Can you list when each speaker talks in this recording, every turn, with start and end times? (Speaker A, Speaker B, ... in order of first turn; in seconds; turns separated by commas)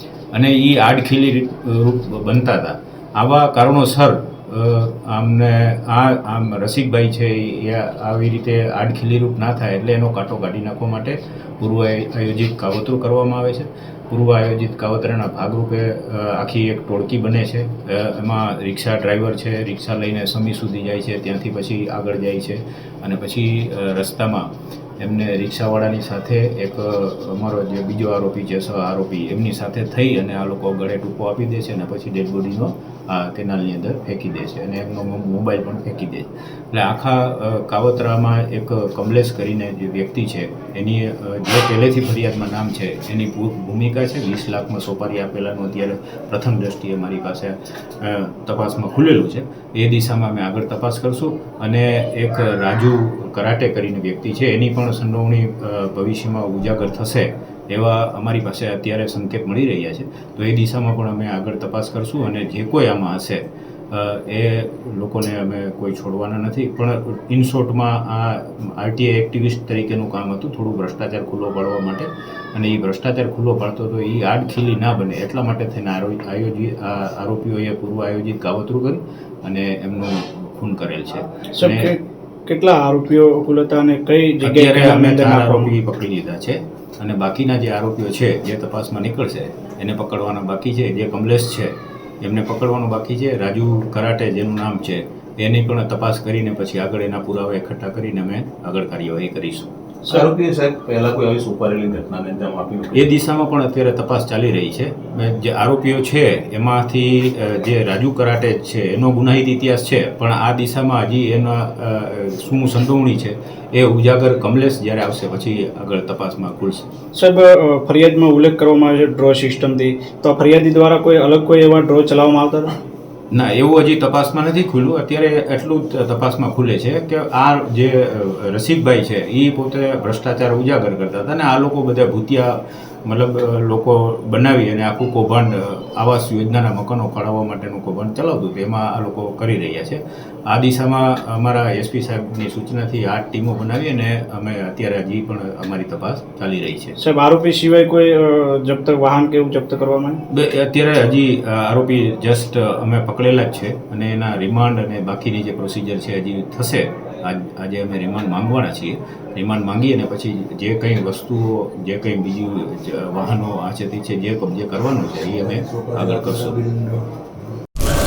Speaker A: 0.3-24.5, Speaker A: 25.0-81.9, Speaker B: 81.6-85.7, Speaker A: 84.4-99.8, Speaker B: 100.1-100.3, Speaker C: 100.1-102.9, Speaker A: 102.8-116.8, Speaker B: 117.2-122.7, Speaker A: 123.3-147.0, Speaker B: 147.0-150.2, Speaker A: 150.3-166.8, Speaker C: 165.6-167.0